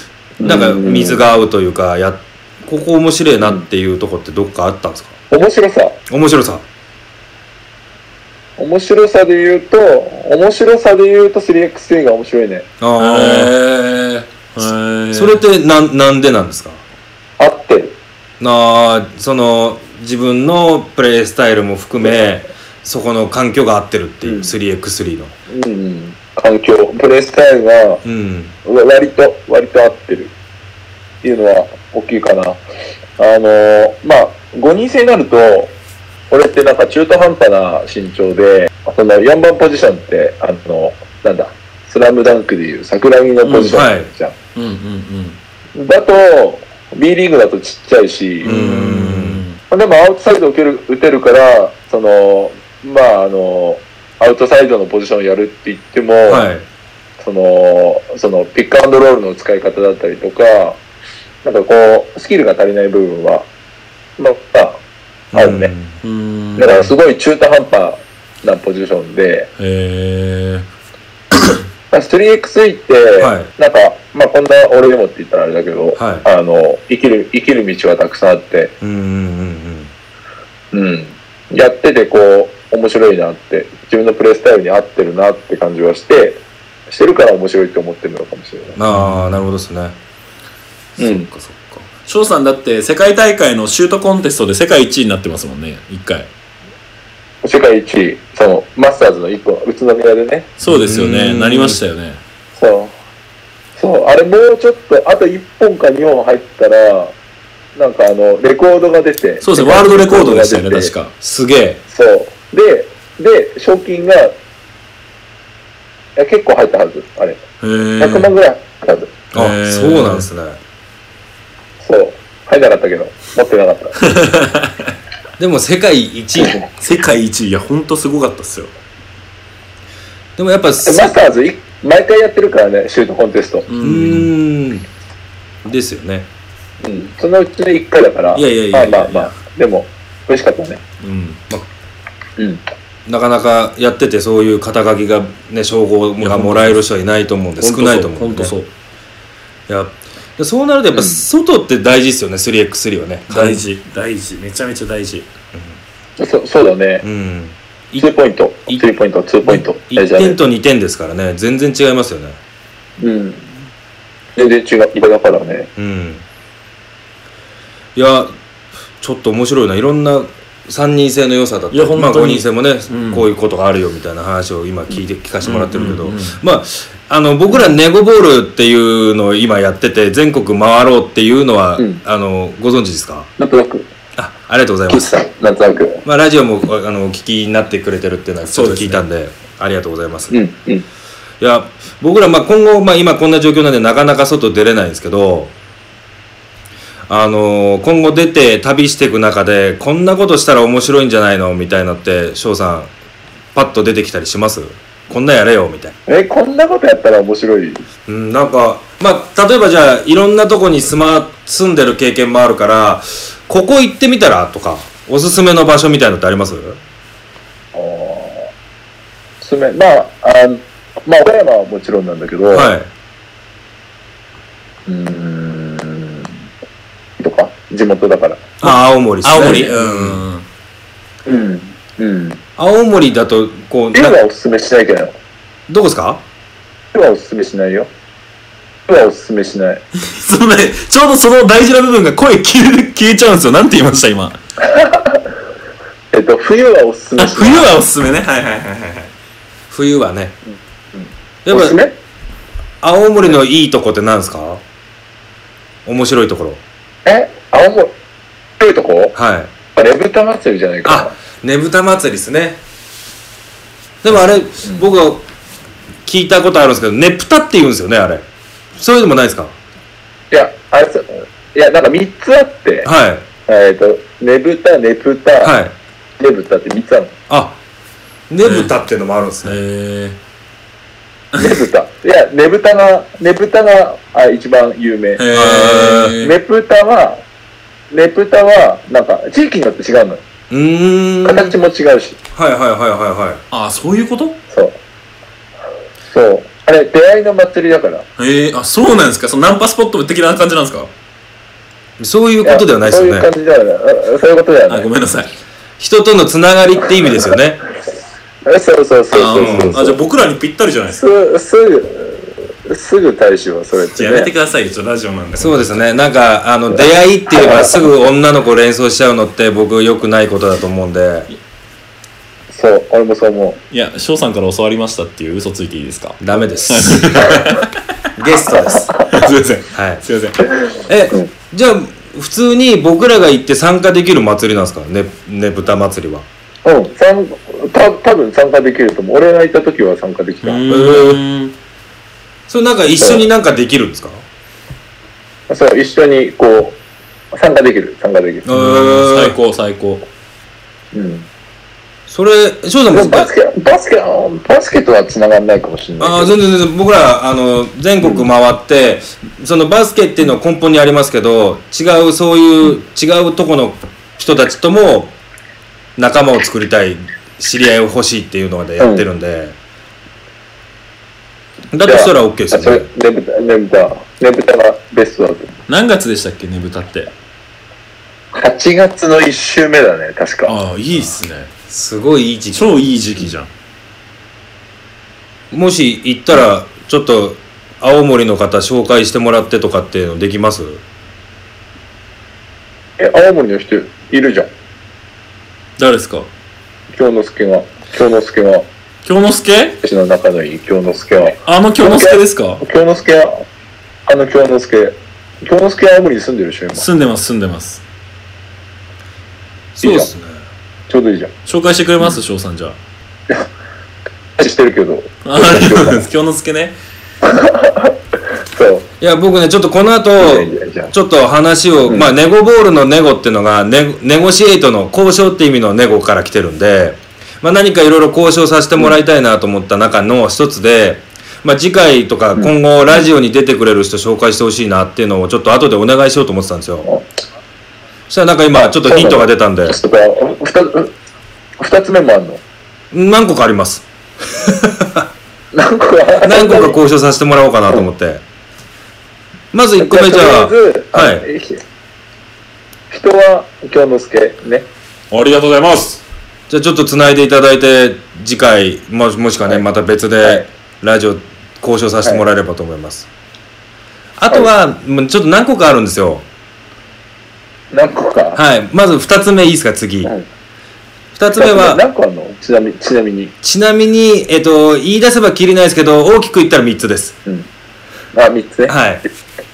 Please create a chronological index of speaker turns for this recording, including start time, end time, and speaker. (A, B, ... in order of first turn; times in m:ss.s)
0:00.4-0:01.2 A
0:00.4-0:05.1 B
0:05.3-0:06.0 A
0:06.1-0:06.6 B
0:08.6-0:12.7 A
0:12.8-0:13.5 B
0:13.0-0:15.4 C
0:15.1-0:16.8 B
0:17.4-0:18.0 A
0:18.4-0:25.3 B
0:24.2-0:24.5 A
0:25.5-0:28.0 A
0:28.0-0:28.5 B
0:28.6-0:30.3 A
0:31.2-0:32.6 A
0:33.2-0:35.7 A
0:36.3-0:44.4 A
0:43.4-0:43.7 C
0:43.7-0:44.1 B
0:44.6-0:45.4 C
0:45.8-0:48.6 A
0:48.4-0:49.6 C
0:48.4-0:49.4 B
0:49.7-0:56.5 A
0:56.3-0:56.6 B
0:57.2-1:00.8 A
1:01.4-1:03.5 A
1:04.2-1:04.8 A
1:05.3-1:06.0 B
1:05.3-1:05.7 A
1:06.0-1:06.9 C
1:06.6-1:09.5 A
1:09.6-1:10.7 C
1:11.3-1:11.6 C
1:11.9-1:18.7 A
1:13.2-1:13.5 B
1:16.0-1:16.3 B
1:18.8-1:19.9 B
1:20.7-1:28.8 A
1:28.8-1:30.0 B
1:28.9-1:29.4 C
1:31.0-1:36.3 C
1:31.0-1:31.3 A
1:37.4-1:40.5 A
1:40.6-1:42.2 C
1:40.7-1:41.8 B
1:42.6-1:43.0 A
1:43.8-1:47.2 A
1:47.8-1:50.9 A
1:49.4-1:51.2 C
1:51.2-1:51.8 B
1:51.9-1:54.4 A
1:56.2-1:57.4 A
1:57.6-1:58.3 C
1:58.0-1:59.1 A
1:59.3-2:00.6 B
1:59.3-2:00.3 C
2:01.8-2:04.0 A
2:04.0-2:04.9 C
2:05.4-2:06.6 B
2:06.4-2:06.7 A
2:06.8-2:08.7 C
2:10.4-2:11.2 B
2:10.8-2:13.7 A
2:13.7-2:14.3 C
2:13.8-2:14.9 B
2:15.6-2:16.3 B
2:16.8-2:20.8 A
2:18.4-2:19.3 C
2:21.0-2:21.4 C
2:23.1-2:28.5 B
2:26.2-2:26.8 C
2:27.6-2:28.7 C
2:29.7-2:33.6 B
2:30.9-2:31.2 A
2:33.3-2:35.3 C
2:36.2-2:37.0 A
2:37.0-2:38.2 B
2:38.0-2:40.4 A
2:39.4-2:42.4 B
2:43.0-2:43.5 A
2:44.4-2:45.7 A
2:45.8-2:46.2 B
2:48.0-2:48.3 B
2:49.0-3:03.3 B
2:51.7-2:53.3 C
2:55.4-2:56.4 C
3:03.4-3:03.9 A
3:04.2-3:05.1 B
3:04.9-3:06.0 A
3:06.0-3:10.4 B
3:08.5-3:09.0 C
3:10.3-3:10.9 A
3:11.4-3:15.5 B
3:17.1-3:22.9 B
3:23.6-3:25.9 B
3:26.1-3:27.8 A
3:28.1-3:36.8 B
3:37.7-3:38.5 A
3:39.4-3:42.7 A
3:42.5-3:42.9 B
3:44.9-3:46.4 A
3:47.2-3:48.6 A
3:48.6-3:50.2 B
3:49.2-3:50.4 C
3:49.3-3:49.7 A
3:51.3-3:52.4 A
3:52.6-3:54.2 B
3:53.9-3:55.2 A
3:55.7-3:56.2 B
3:56.9-3:57.9 A
3:58.9-3:59.8 A
4:00.0-4:04.4 C
4:04.6-4:05.2 A
4:06.1-4:07.7 A
4:07.2-4:09.1 C
4:09.7-4:10.4 B
4:11.0-4:12.0 A
4:11.4-4:11.8 B
4:12.8-4:14.6 B
4:15.9-4:16.6 B
4:17.0-4:17.9 A
4:18.6-4:19.2 A
4:19.2-4:19.5 B
4:19.8-4:21.1 A
4:20.8-4:22.6 B
4:24.0-4:25.2 B
4:24.6-4:24.9 A
4:26.1-4:28.2 B
4:28.8-4:29.6 B
4:30.3-4:32.9 A
4:32.8-4:33.3 B
4:33.5-4:35.6 A
4:35.4-4:35.8 B
4:36.2-4:37.1 A
4:37.3-4:37.6 B
4:38.3-4:39.6 B
4:38.4-4:38.7 C
4:39.4-4:40.2 C
4:41.4-4:45.2 A
4:45.2-4:46.4 C
4:45.3-4:46.2 B
4:46.2-4:47.2 A
4:47.9-4:50.2 A
4:50.5-4:51.6 B
4:51.2-4:52.2 A
4:52.3-4:53.4 B
4:53.5-4:54.4 C
4:54.5-4:54.8 A
4:56.1-4:58.1 A
4:58.2-5:00.9 C
5:02.0-5:03.3 B
5:02.4-5:04.9 A
5:04.7-5:05.3 C
5:05.8-5:07.6 B
5:08.4-5:10.0 A
5:09.1-5:11.0 C
5:09.4-5:09.8 B
5:10.9-5:14.3 A
5:14.0-5:15.8 C
5:15.4-5:21.3 B
5:17.3-5:17.8 A
5:22.5-5:23.6 A
5:23.7-5:27.7 C
5:26.2-5:27.3 B
5:28.2-5:29.1 B
5:28.8-5:29.1 A
5:29.1-5:30.5 C
5:29.7-5:30.0 B
5:30.9-5:36.3 B
5:36.6-5:40.6 A
5:40.4-5:41.5 C
5:40.7-5:41.2 B
5:42.5-5:44.2 B
5:43.0-5:43.2 A
5:45.5-5:46.8 A
5:47.3-5:48.5 A
5:48.5-5:49.4 B
5:48.5-5:50.1 C
5:50.9-5:51.3 A
5:52.1-5:53.3 B
5:52.9-5:56.3 A
5:56.0-6:05.2 B
6:06.0-6:09.6 B
6:08.8-6:09.1 A
6:11.7-6:12.9 B
6:11.8-6:15.5 A
6:15.7-6:17.1 C
6:18.3-6:20.6 A
6:20.5-6:21.5 C
6:21.7-6:22.8 B
6:22.5-6:23.5 C
6:25.5-6:30.8 B
6:33.0-6:34.5 A
6:35.8-6:36.3 C
6:36.9-6:38.7 A
6:39.0-6:39.8 C
6:39.8-6:43.4 A
6:41.5-6:42.6 C
6:44.1-6:46.8 A
6:46.7-6:47.8 C
6:49.8-6:50.4 B
6:49.8-6:50.1 A
6:50.9-6:51.3 A
6:51.5-6:52.8 C
6:54.4-6:56.1 A
6:55.2-6:56.8 C
6:57.2-6:58.0 A
6:58.5-6:58.9 A
6:59.0-7:16.9 B
7:00.2-7:00.9 A
7:18.1-7:19.8 B
7:18.5-7:20.9 A
7:21.6-7:22.4 A
7:22.9-7:25.1 B
7:25.5-7:26.8 A
7:26.2-7:28.2 B
7:29.5-7:31.3 B
7:29.8-7:31.6 A
7:32.9-7:34.7 A
7:35.1-7:36.0 C
7:36.5-7:43.1 B
7:40.2-7:40.5 A
7:44.2-7:46.2 B
7:47.7-7:48.4 A
7:48.4-7:50.1 B
7:51.2-7:51.8 B
7:51.4-7:53.3 A
7:53.4-7:57.2 B
7:58.1-7:58.8 A
7:58.7-7:59.0 B